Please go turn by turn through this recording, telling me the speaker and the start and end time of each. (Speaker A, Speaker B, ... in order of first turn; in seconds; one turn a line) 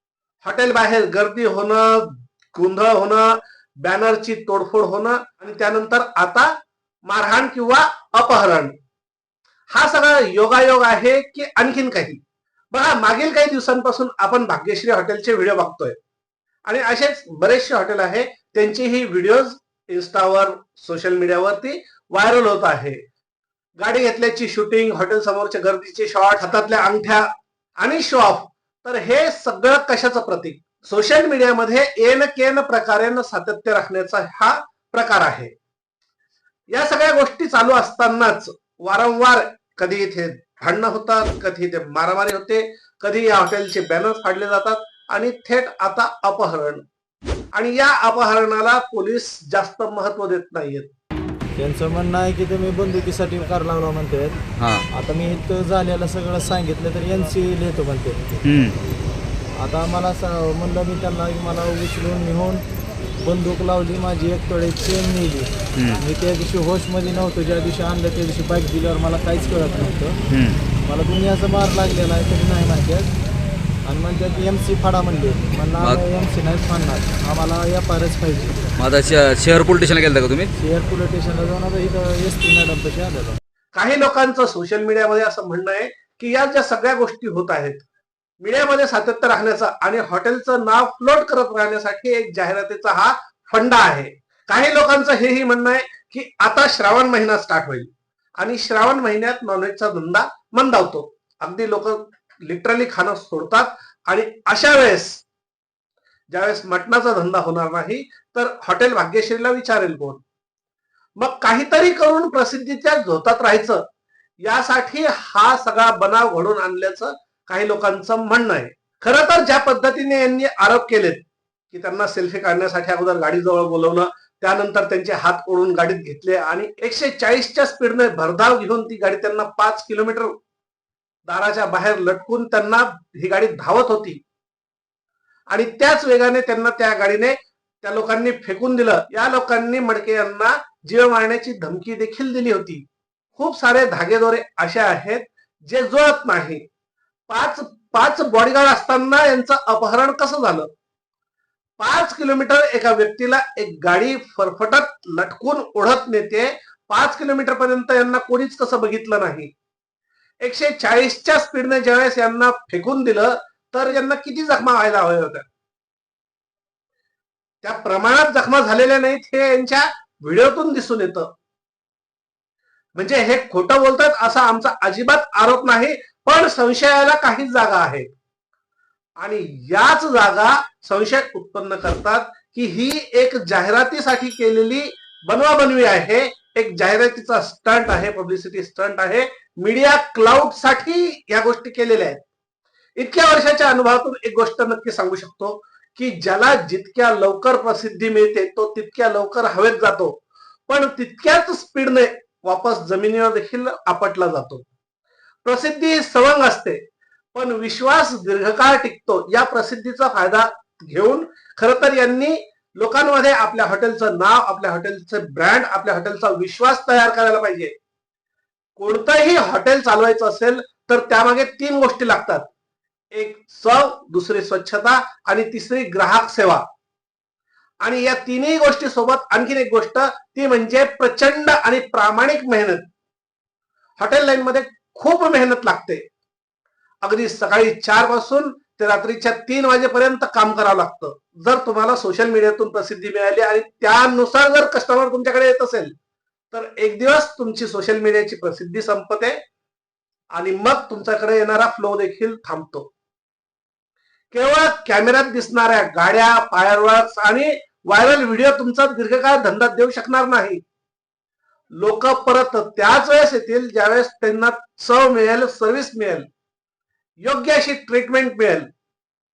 Speaker A: 0.4-6.5
Speaker A: 7.0-8.7
Speaker A: 9.7-12.2
Speaker A: 12.7-15.9
Speaker A: 16.7-23.0
Speaker A: 23.8-27.3
Speaker A: 27.8-35.5
Speaker A: 36.7-46.8
Speaker A: 47.5-50.9
Speaker B: 51.5-54.4
Speaker C: 54.6-54.9
Speaker B: 54.9-58.3
Speaker C: 58.4-58.8
Speaker B: 59.6-62.6
Speaker B: 63.2-70.2
Speaker C: 65.7-66.0
Speaker C: 70.3-70.6
Speaker B: 70.8-73.1
Speaker B: 73.8-78.6
Speaker C: 78.8-80.5
Speaker B: 80.5-83.4
Speaker A: 83.7-87.8
Speaker A: 88.4-97.9
Speaker A: 98.4-105.2
Speaker A: 106.3-110.2
Speaker A: 111.2-113.8
Speaker A: 114.4-130.3
Speaker A: 131.3-134.2
Speaker A: 135.5-142.8
Speaker A: 143.3-146.6
Speaker A: 147.3-150.7
Speaker A: 151.8-159.5
Speaker A: 160.4-165.5
Speaker A: 167.6-171.3
Speaker A: 172.9-178.1
Speaker A: 179.2-192.2
Speaker A: 193.0-204.6
Speaker A: 205.4-206.8
Speaker A: 207.3-217.7
Speaker A: 218.8-222.4
Speaker A: 223.1-226.6
Speaker A: 227.8-232.8
Speaker A: 234.0-236.0
Speaker A: 237.0-245.9
Speaker A: 246.5-249.4
Speaker A: 250.3-252.9
Speaker A: 254.3-260.6
Speaker A: 261.8-266.2
Speaker A: 267.2-268.6